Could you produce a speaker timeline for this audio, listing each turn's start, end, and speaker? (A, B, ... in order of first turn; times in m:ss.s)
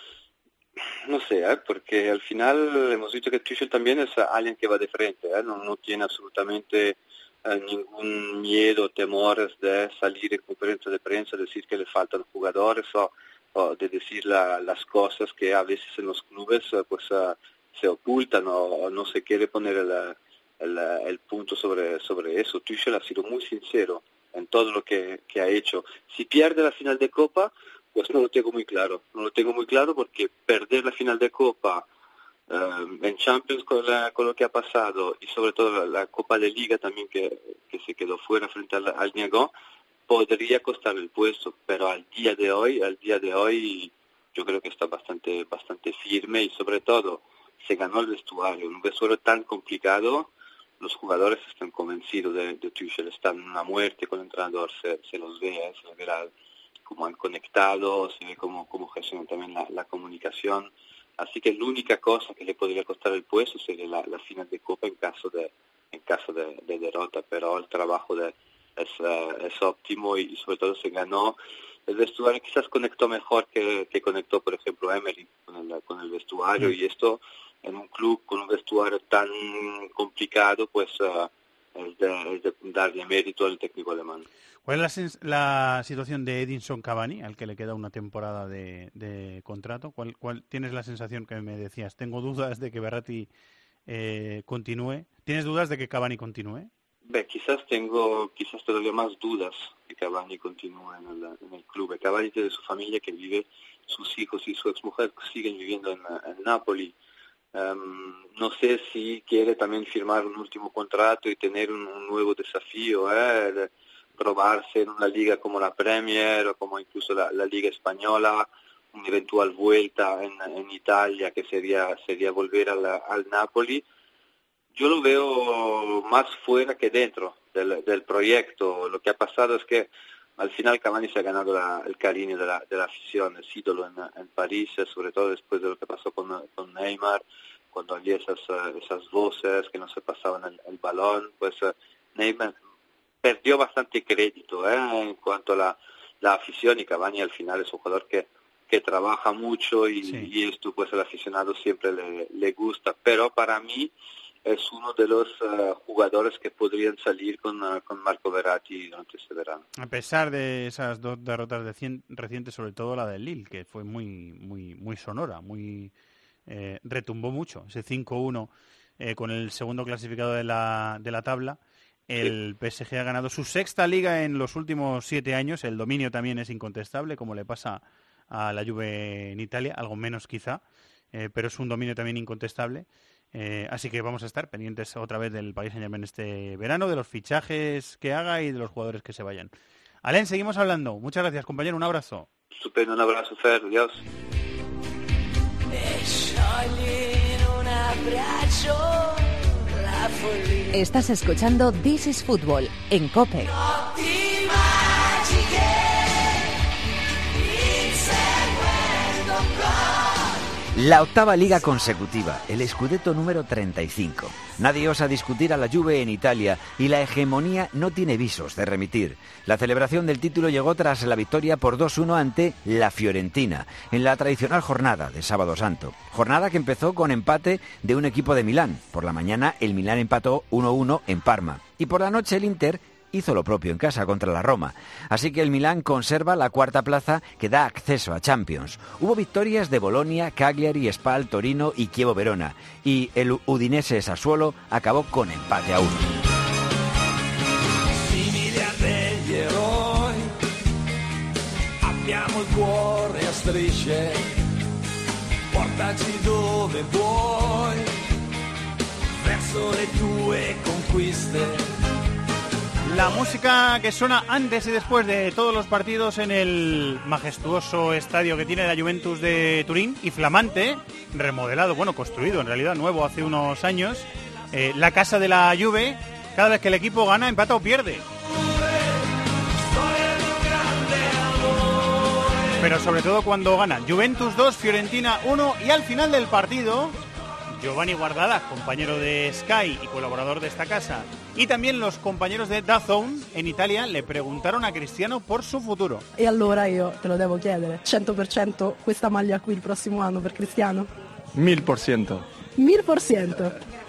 0:01.1-0:31.8 A
0:32.5-0:39.5 A
0:40.1-0:56.3 A
0:56.8-1:11.4 A
1:11.9-1:24.2 A
1:24.6-1:33.3 B
1:33.9-1:36.7 B
1:37.0-1:46.9 A
1:47.5-2:03.8 A
2:04.7-2:22.6 A
2:23.2-2:33.9 A
2:30.0-2:30.3 B
2:34.4-2:39.6 A
2:39.8-2:45.9 B
2:46.5-3:00.6 B
3:01.1-3:09.5 B
3:10.0-3:12.3 B
3:12.5-3:14.0 A
3:15.7-3:19.0 C
3:19.9-3:20.7 C
3:20.7-3:23.6 D
3:30.7-4:06.0 E
4:08.0-4:10.3 C
4:11.8-4:14.4 C
4:15.5-4:18.0 C
4:19.2-4:21.7 C
4:22.9-4:38.0 B
4:39.7-4:42.1 C
4:42.6-4:47.0 B
4:47.5-4:56.0 B
4:56.2-5:00.9 F
5:01.4-5:02.2 C
5:02.6-5:03.5 F